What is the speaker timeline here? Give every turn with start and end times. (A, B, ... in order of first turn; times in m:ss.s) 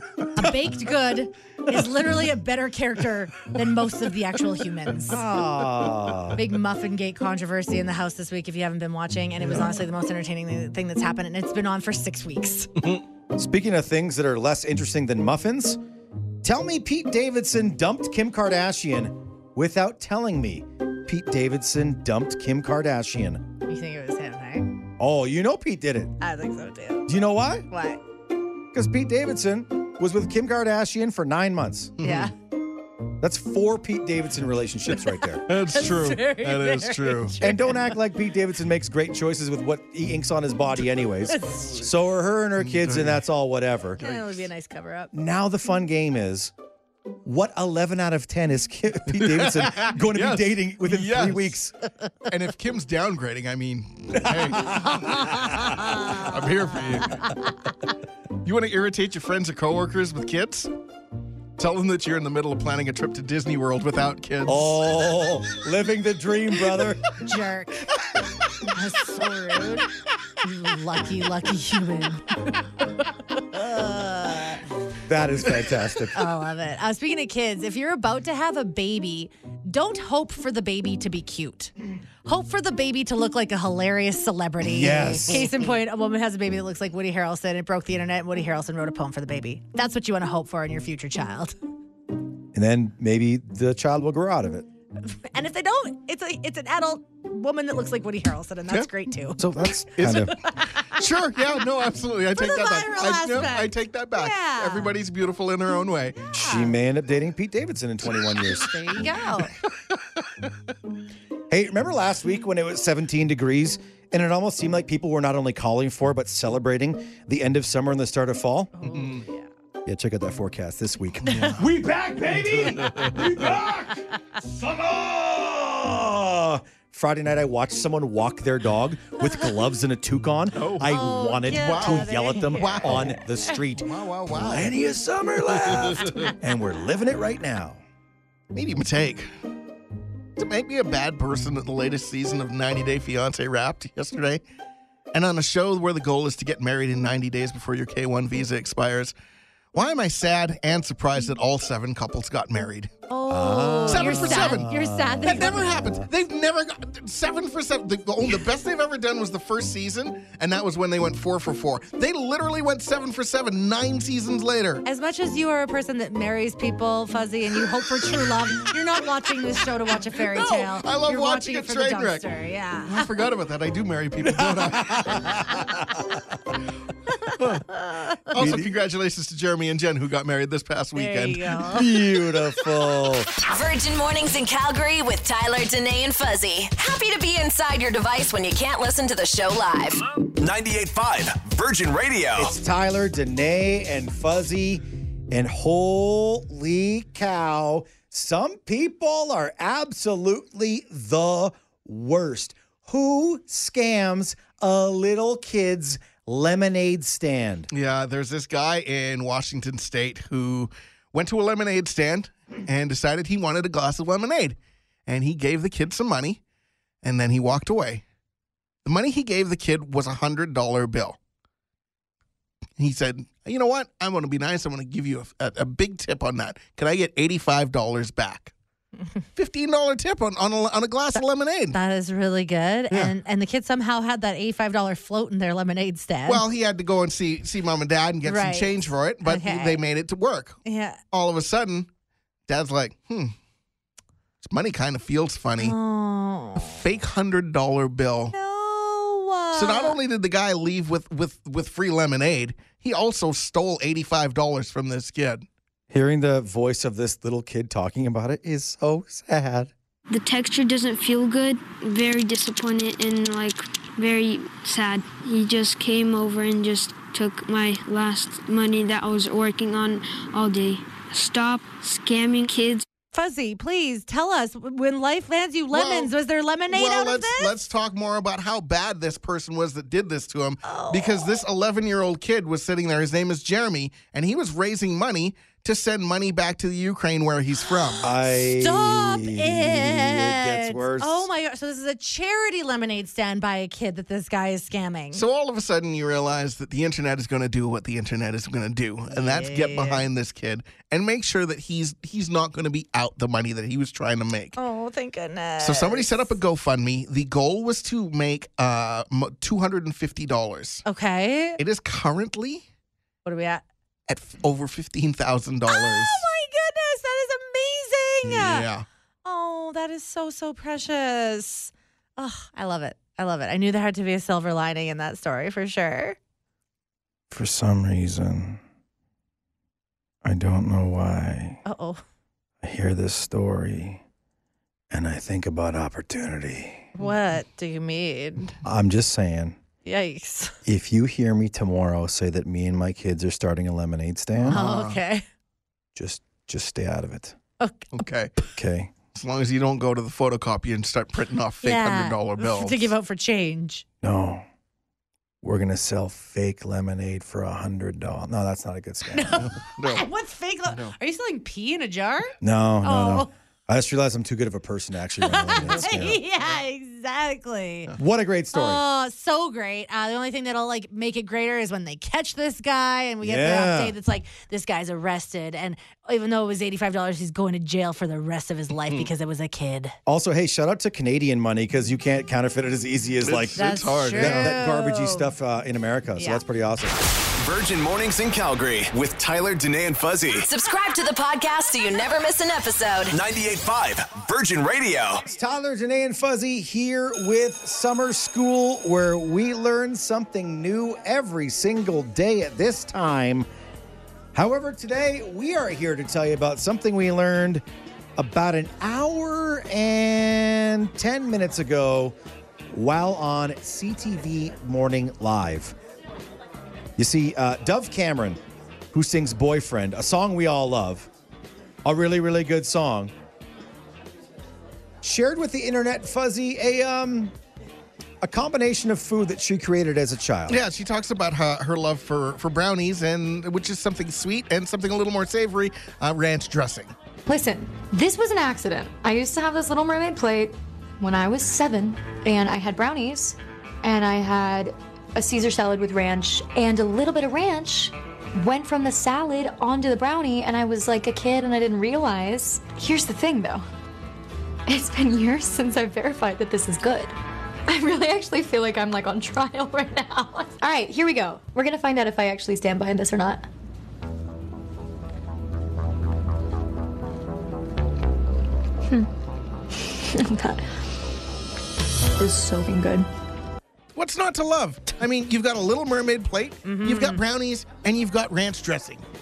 0:00.3-0:05.2 A
0:05.1-0:06.4 B
0:06.4-0:12.7 A
0:13.3-0:15.8 B
0:16.4-0:23.5 B
0:23.7-0:24.8 A
0:25.0-0:26.2 B
0:26.2-0:27.1 A
0:27.1-0:27.7 B
0:27.7-0:28.0 A
0:28.7-0:32.0 B
0:32.0-0:32.3 C
0:32.0-0:32.3 A
0:33.2-0:35.5 B
0:35.5-0:37.4 C
0:35.5-0:38.0 A
0:37.4-0:44.1 B
0:41.3-0:41.9 A
0:42.6-0:43.2 C
0:44.0-0:45.1 A
0:45.1-0:46.5 B
0:47.2-0:51.7 B
0:49.1-0:51.6 C
0:52.3-0:57.3 C
0:54.7-0:55.8 B
0:55.0-0:56.4 A
0:58.4-1:00.7 C
1:01.6-1:04.9 C
1:04.5-1:07.0 B
1:07.2-1:07.8 A
1:08.6-1:09.9 A
1:10.4-1:12.6 A
1:13.4-1:14.6 A
1:15.1-1:16.2 B
1:16.2-1:21.7 A
1:22.2-1:31.5 A
1:24.6-1:25.5 B
1:32.5-1:34.7 B
1:35.0-1:39.4 A
1:39.4-1:40.4 B
1:40.0-1:46.2 C
1:40.4-1:41.0 A
1:42.4-1:44.9 A
1:46.3-1:48.7 B
1:46.4-1:46.8 A
1:48.6-1:49.5 A
1:49.8-1:50.4 C
1:51.5-1:58.9 B
1:58.8-1:59.5 A
1:58.9-1:59.2 C
1:59.8-2:17.8 B
2:01.3-2:01.6 A
2:01.3-2:01.6 C
2:02.6-2:03.4 C
2:10.5-2:13.2 C
2:10.9-2:13.2 A
2:13.8-2:14.8 C
2:15.6-2:16.3 C
2:18.5-2:19.3 C
2:20.4-2:24.4 C
2:25.1-2:29.1 C
2:29.7-2:33.0 C
2:33.1-2:35.8 A
2:33.3-2:36.1 B
2:33.9-2:34.7 C
2:35.2-2:44.8 C
2:44.8-2:53.1 A
2:50.2-2:52.2 C
2:52.8-2:55.5 C
2:54.4-2:55.9 B
2:57.2-2:58.3 A
2:57.4-2:57.7 C
2:58.3-3:01.7 C
2:58.4-2:58.7 B
3:01.0-3:02.0 A
3:01.7-3:03.3 B
3:03.4-3:10.0 D
3:10.3-3:12.5 E
3:12.4-3:27.7 B
3:27.7-3:36.4 C
3:37.0-3:38.0 C
3:38.8-3:41.2 C
3:42.8-3:48.5 C
3:49.4-3:51.8 C
3:51.2-3:56.4 A
3:56.3-4:01.9 C
3:58.3-3:59.8 A
4:00.6-4:01.0 A
4:02.5-4:03.4 C
4:04.4-4:05.8 C
4:05.6-4:06.8 A
4:06.6-4:08.3 C
4:08.3-4:10.0 A
4:09.5-4:15.4 C
4:15.9-4:19.7 B
4:20.1-4:32.8 F
4:33.1-4:37.5 A
4:35.7-4:36.1 C
4:36.7-4:48.1 C
4:40.6-4:41.3 A
4:48.0-4:51.3 B
4:48.4-4:55.2 A
4:55.1-5:04.6 C
4:59.1-5:00.0 A
5:04.6-5:06.3 A
5:05.6-5:10.8 C
5:10.9-5:11.6 A
5:11.6-5:12.6 C
5:13.2-5:13.6 A
5:14.1-5:16.2 C
5:15.7-5:18.7 A
5:18.2-5:18.9 C
5:19.2-5:26.2 A
5:27.3-5:28.6 B
5:30.2-5:31.6 B
5:31.7-5:32.0 A
5:32.6-5:34.0 B
5:34.9-5:36.9 B
5:37.0-5:38.6 A
5:38.6-5:39.6 B
5:39.8-5:40.5 A
5:40.7-5:44.7 B
5:44.5-5:45.2 A
5:44.5-5:45.0 C
5:46.0-5:47.4 B
5:47.6-5:47.9 A
5:47.9-5:48.3 C
5:48.6-5:48.9 B
5:49.1-5:52.9 C
5:51.6-5:53.8 A
5:54.0-5:54.4 B
5:55.4-5:59.5 B
5:59.1-6:03.3 A
5:59.6-6:00.1 C
6:02.4-6:06.2 B
6:05.2-6:07.9 A
6:05.7-6:06.0 C
6:08.0-6:08.8 B
6:08.5-6:20.0 A
6:13.2-6:14.0 B
6:20.1-6:27.0 B
6:23.2-6:24.6 C
6:23.6-6:25.3 A
6:26.2-6:26.4 A
6:27.4-6:30.5 E
6:30.4-6:33.2 D
6:33.1-6:35.2 E
6:35.3-6:43.5 B
6:44.3-6:47.6 B
6:48.2-6:52.2 B
6:52.7-6:55.8 B
6:57.0-6:58.4 B
6:58.9-7:01.1 B
7:01.8-7:03.1 B
7:05.0-7:07.3 B
7:08.2-7:10.6 B
7:10.5-7:16.9 C
7:17.3-7:33.6 G
7:34.7-7:37.1 G
7:37.7-7:43.5 G
7:49.7-7:50.7 G
7:52.2-7:53.1 G
7:54.0-7:59.0 C
7:56.6-7:57.2 A